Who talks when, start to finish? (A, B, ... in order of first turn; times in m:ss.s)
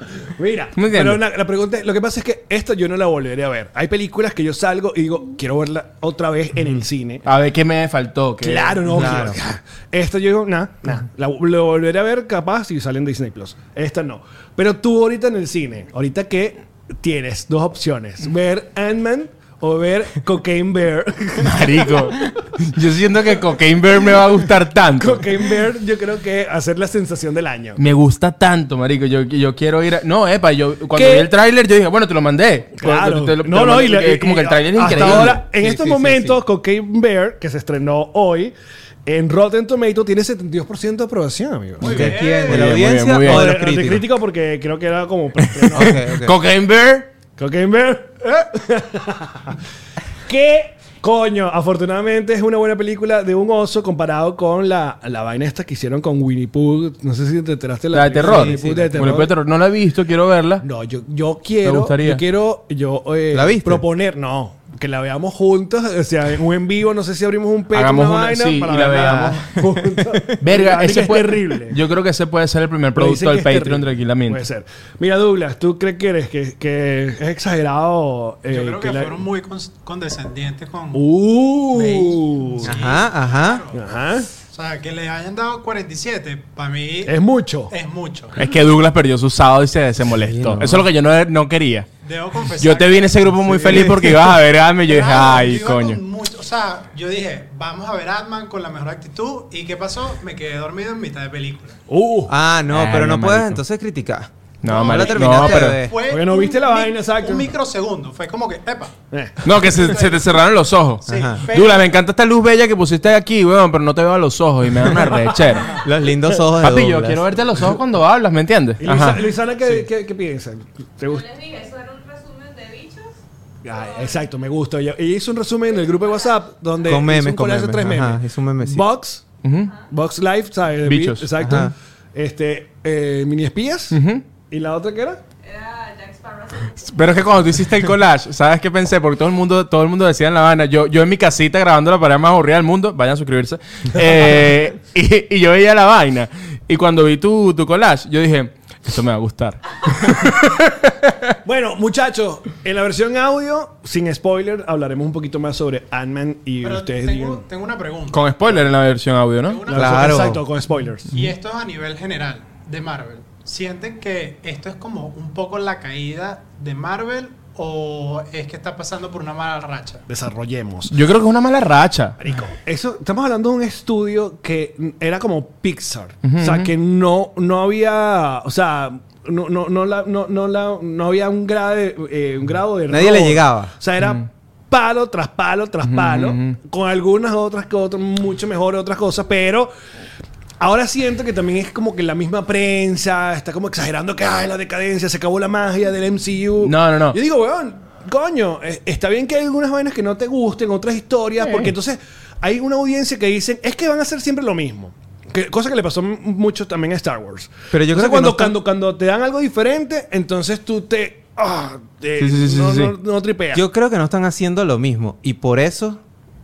0:00.4-0:07.2 A
0:00.8-0:01.2 B
0:07.2-0:09.2 B
0:08.4-0:21.9 A
0:08.9-0:09.4 C
0:21.4-0:25.3 B
0:25.0-0:27.8 A
0:27.8-0:35.4 B
0:30.9-0:31.3 A
0:32.8-0:38.5 A
0:34.9-0:36.4 C
0:39.1-0:42.2 A
0:41.8-0:42.7 D
0:41.8-0:44.1 C
0:42.4-0:43.5 B
0:43.1-0:46.0 A
0:45.6-0:46.4 C
0:45.8-0:47.1 B
0:47.4-0:49.6 A
0:50.3-0:59.3 A
0:57.9-1:00.6 B
0:58.2-0:59.3 C
1:00.6-1:11.8 A
1:01.6-1:02.2 B
1:03.3-1:03.8 C
1:07.7-1:09.5 B
1:10.4-1:14.4 B
1:12.9-1:19.2 A
1:18.5-1:21.1 D
1:20.9-1:22.7 A
1:21.7-1:23.8 D
1:22.6-1:23.6 C
1:23.7-1:24.3 A
1:24.5-1:27.2 D
1:27.1-1:27.7 A
1:27.7-1:28.4 D
1:28.4-1:31.9 B
1:30.1-1:30.9 C
1:32.0-1:33.4 D
1:32.6-1:36.0 B
1:33.5-1:33.9 A
1:34.9-1:41.8 D
1:41.9-1:42.3 A
1:42.3-1:46.0 C
1:42.7-1:43.6 B
1:44.6-1:45.8 B
1:44.6-1:50.3 D
1:46.1-1:47.5 A
1:49.1-1:49.5 A
1:49.4-1:55.8 B
1:51.0-1:51.9 D
1:51.1-1:51.4 C
1:55.8-1:57.4 C
1:56.6-1:59.2 B
1:58.8-2:01.3 A
2:01.0-2:03.2 E
2:03.6-2:09.2 A
2:03.7-2:04.2 E
2:05.7-2:06.5 E
2:06.8-2:08.8 C
2:09.4-2:09.7 B
2:09.9-2:14.0 A
2:10.8-2:11.7 B
2:11.4-2:11.7 C
2:13.9-2:14.2 B
2:14.5-2:15.2 A
2:15.4-2:17.3 E
2:16.9-2:31.4 B
2:31.4-2:37.4 A
2:36.6-2:38.6 D
2:38.1-2:39.6 B
2:39.4-2:40.4 D
2:39.7-2:41.2 A
2:39.7-2:40.4 C
2:41.1-2:50.0 D
2:50.1-2:50.9 A
2:50.9-2:52.2 B
2:52.2-3:09.7 A
2:56.2-2:56.7 B
3:02.9-3:03.7 C
3:04.0-3:04.3 B
3:05.8-3:06.6 B
3:10.6-3:33.6 A
3:16.6-3:17.2 B
3:21.4-3:21.7 B
3:27.7-3:28.6 C
3:32.2-3:33.0 B
3:33.5-3:36.0 C